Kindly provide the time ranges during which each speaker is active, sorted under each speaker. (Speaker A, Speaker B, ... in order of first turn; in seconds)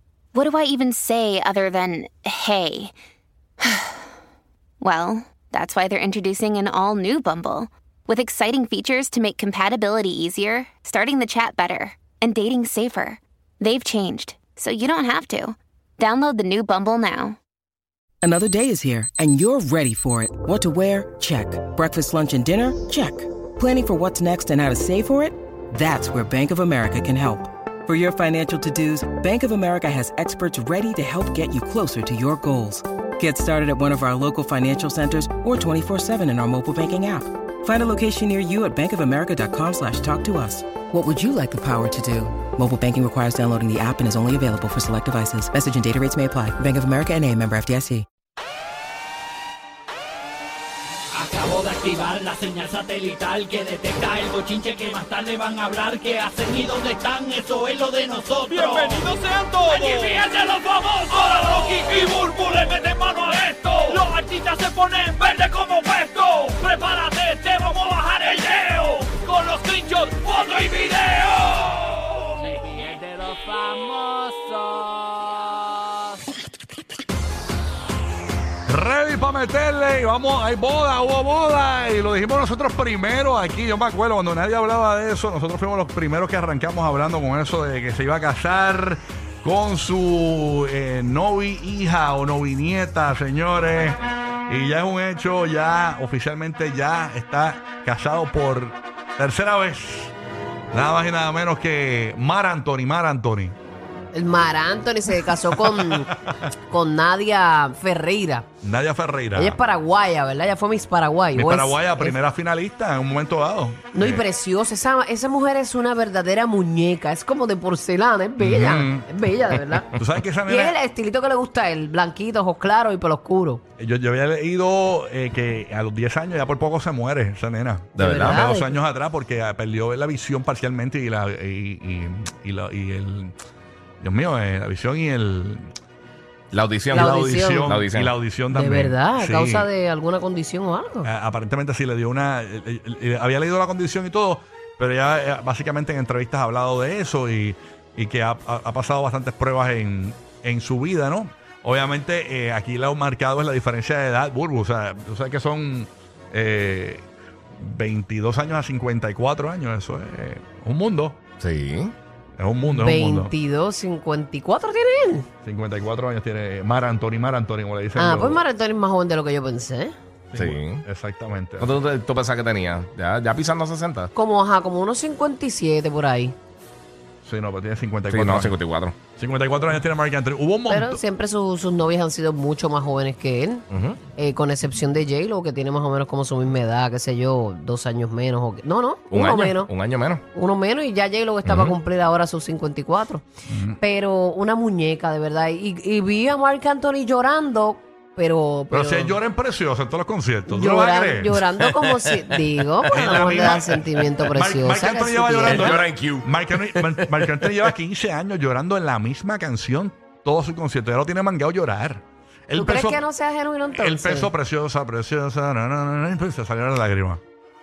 Speaker A: 0.3-2.9, 3.6-4.0, 4.8-17.4
Speaker B: 18.2-48.1
Speaker C: 51.2-76.2
Speaker D: 78.7-100.1, 100.7-103.6, 105.5-106.4, 108.6-109.6, 111.3-114.2, 118.4-119.1, 120.0-120.8, 123.8-133.3, 134.0-135.7, 136.9-139.7, 141.0-161.2, 162.4-163.3, 165.4-168.4, 170.3-171.8, 177.2-178.6, 179.2-181.0, 193.5-193.8, 198.7-201.4, 202.9-213.0, 213.8-217.2
Speaker E: 104.1-106.1, 106.7-108.5, 109.3-112.2, 113.9-119.9, 120.5-123.6, 128.0-128.8, 136.9-137.8, 138.5-141.1, 162.7-165.3, 168.0-170.0, 174.2-176.4, 180.7-183.6, 184.2-189.7, 190.3-193.2, 193.8-199.2, 200.5-205.8, 212.6-214.3
Speaker F: 128.0-128.4, 136.5-138.1, 161.4-161.9, 170.3-170.8, 171.6-174.1, 178.1-178.9, 183.7-184.0, 189.1-190.2, 191.4-191.8, 205.5-207.7